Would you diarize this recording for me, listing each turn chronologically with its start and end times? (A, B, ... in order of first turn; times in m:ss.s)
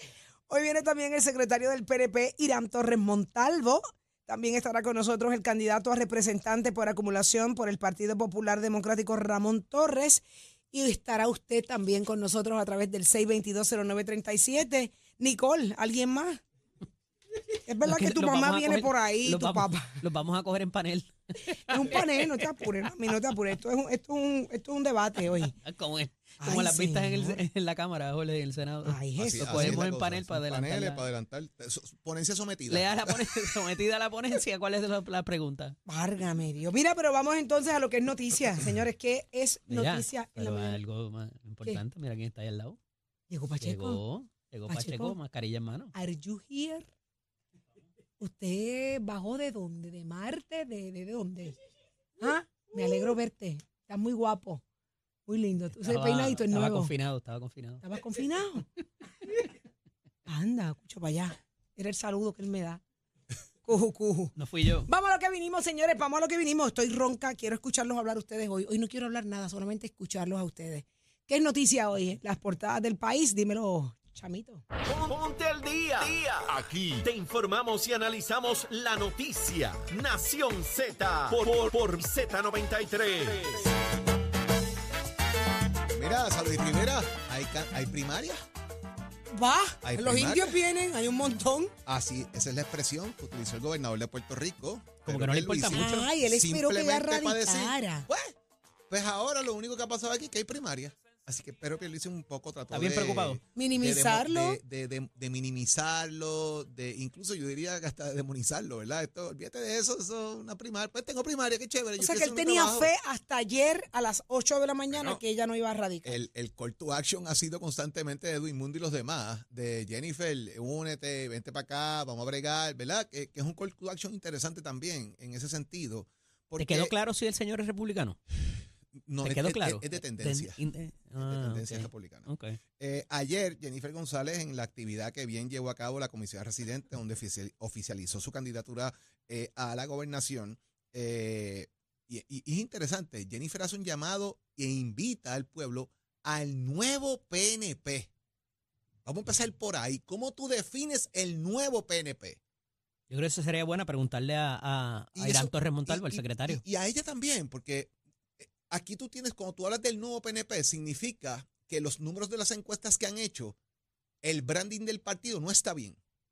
0:00.5-0:16.4 A
0:17.7-0:20.0 A
0:17.8-0:22.4 B
0:21.5-0:25.6 A
0:25.6-0:31.0 B
0:26.4-0:27.4 A
0:28.8-0:29.8 A
0:29.2-0:33.3 C
0:32.7-0:35.8 B
0:35.9-0:40.8 A
0:39.7-0:42.8 B
0:43.3-0:44.0 A
0:43.6-0:45.9 B
0:44.7-0:45.2 A
0:45.9-0:46.9 A
0:48.2-0:51.6 A
0:52.2-0:54.6 A
0:55.3-0:56.9 A
0:55.8-0:57.8 B
0:57.8-0:58.6 A
1:00.3-1:02.8 A
1:03.6-1:04.4 A
1:04.4-1:04.9 B
1:04.9-1:14.6 A
1:14.9-1:23.7 D
1:25.9-1:28.4 C
1:29.4-1:31.7 A
1:29.8-1:30.6 C
1:31.9-1:38.4 C
1:35.0-1:36.1 B
1:35.7-1:38.1 A
1:38.9-1:52.9 C
1:42.7-1:43.4 B
1:43.6-1:44.6 A
1:52.0-1:56.2 A
1:54.9-1:55.2 C
1:56.0-2:06.9 C
2:06.6-2:08.2 B
2:09.0-2:10.6 C
2:09.2-2:12.6 B
2:11.2-2:28.1 C
2:29.0-2:32.4 C
2:33.1-2:36.6 B
2:35.2-2:43.6 C
2:44.2-2:46.0 C